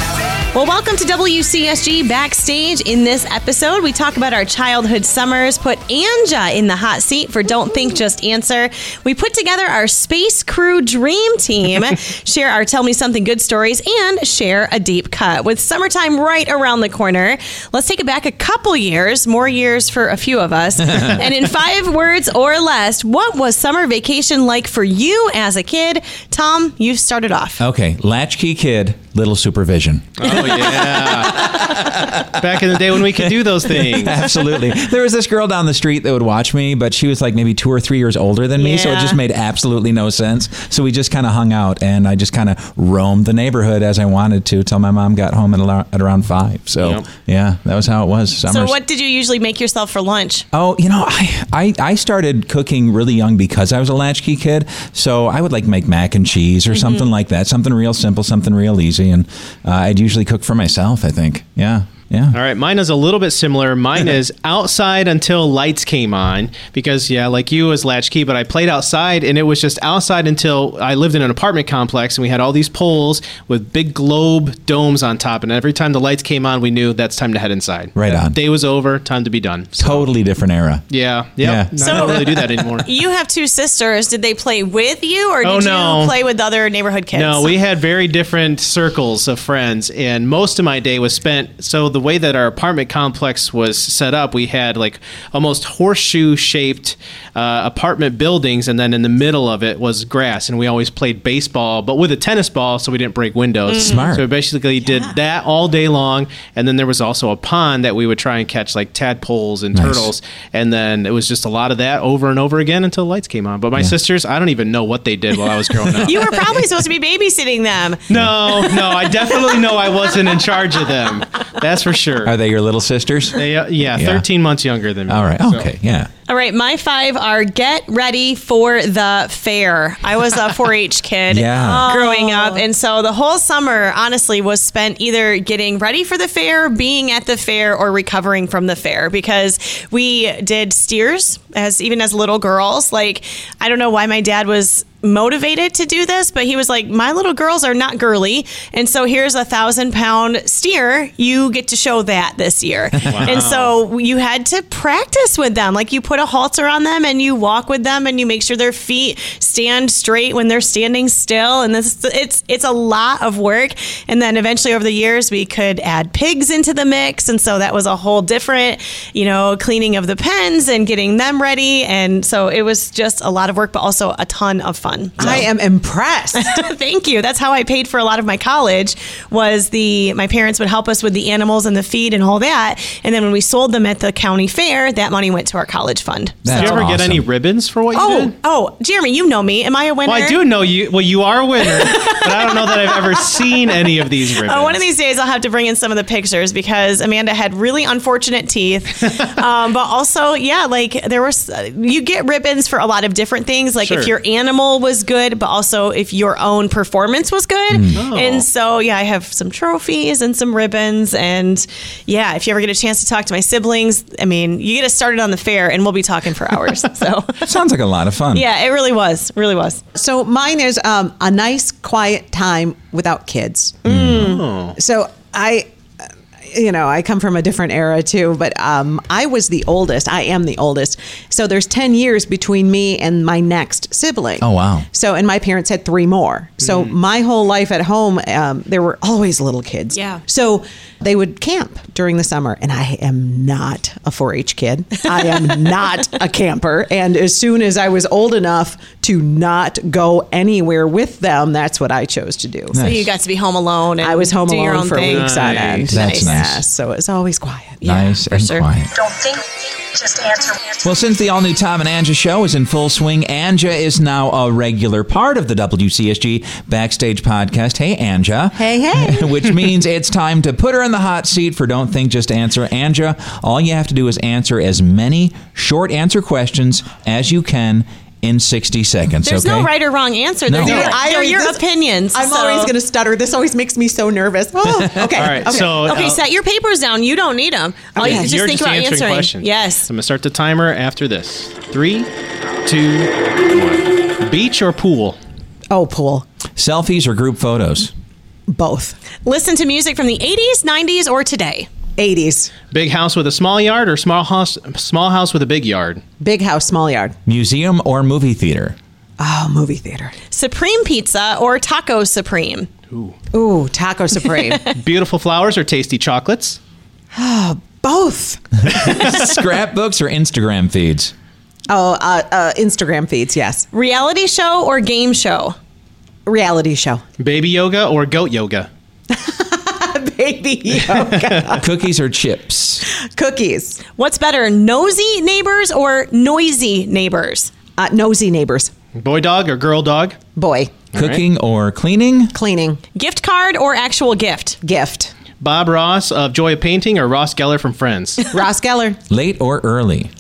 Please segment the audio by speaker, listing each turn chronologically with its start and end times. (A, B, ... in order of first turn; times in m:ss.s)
0:00.5-0:27.6 A
0:20.9-0:21.2 B
0:27.6-0:48.8 B
0:30.2-0:34.2 C
0:38.6-0:39.2 A
0:46.8-0:47.0 C
0:48.4-0:50.4 A
0:50.5-1:02.4 B
0:56.7-0:57.1 A
1:02.3-1:20.1 C
1:18.0-1:18.4 B
1:19.8-1:20.8 B
1:20.9-1:22.9 C
1:21.4-1:22.7 B
1:21.8-1:27.6 A
1:25.4-1:26.2 C
1:27.1-1:56.5 C
1:43.7-1:44.0 A
1:43.8-1:44.3 B
1:44.8-1:45.2 D
1:49.7-1:50.1 B
1:56.0-1:59.4 A
1:58.1-2:02.3 C
1:58.1-1:58.4 B
2:02.2-2:04.2 B
2:03.3-2:05.7 C
2:05.1-2:06.1 B
2:06.3-2:55.4 A
2:11.3-2:11.9 B
2:11.6-2:12.6 D
2:33.1-2:33.7 C
2:55.2-2:56.4 D
2:56.3-3:06.8 A
3:06.4-3:07.2 B
3:06.5-3:08.3 C
3:07.9-3:10.4 A
3:10.0-3:14.8 C
3:11.6-3:13.6 A
3:14.4-3:37.5 A
3:23.8-3:24.1 C
3:27.7-3:28.0 B
3:27.9-3:28.4 C
3:37.4-3:38.4 B
3:38.3-3:39.8 A
3:39.9-3:43.8 D
3:43.8-3:44.4 A
3:43.8-3:44.4 B
3:44.2-3:44.8 C
3:44.8-3:45.7 D
3:46.5-4:12.8 D
3:54.4-3:54.8 B
3:56.6-3:56.9 C
3:59.9-4:00.2 A
4:12.7-4:13.1 B
4:12.8-4:16.3 A
4:14.0-4:17.8 D
4:15.0-4:15.9 C
4:15.9-4:16.6 B
4:17.8-4:18.7 A
4:17.8-4:19.1 B
4:20.8-4:39.7 B
4:28.6-4:29.5 D
4:39.2-4:42.7 A
4:40.5-4:40.9 B
4:40.6-4:45.8 D
4:40.6-4:41.0 C
4:45.1-4:46.2 C
4:45.5-4:49.9 A
4:47.9-4:48.3 D
4:48.0-4:52.1 C
4:52.6-4:55.2 C
4:55.7-4:56.2 D
4:56.6-4:57.9 B
4:58.5-4:59.0 D
4:59.2-5:01.7 A
5:02.0-5:02.5 D
5:02.7-5:06.0 C
5:06.2-5:07.2 D
5:07.2-5:08.8 B
5:09.2-5:10.1 D
5:10.3-5:12.7 A
5:12.9-5:13.2 C
5:13.3-5:14.8 D
5:14.7-5:16.6 C
5:17.1-5:19.0 D
5:18.6-5:21.1 B
5:21.7-5:23.7 D
5:23.7-5:25.6 A
5:26.2-5:27.0 D
5:27.2-5:28.7 C
5:29.1-5:31.7 D
5:30.8-5:31.6 C
5:31.6-5:32.8 B
5:33.1-5:33.8 D
5:34.0-5:37.5 A
5:37.8-5:38.7 D
5:39.0-5:40.2 C
5:40.4-5:40.8 D
5:40.9-5:41.2 C
5:40.9-5:42.4 B
5:42.3-5:42.8 D
5:42.9-5:44.6 A
5:44.6-5:45.1 D
5:45.4-5:48.2 C
5:48.3-5:49.0 D
5:49.1-5:50.1 B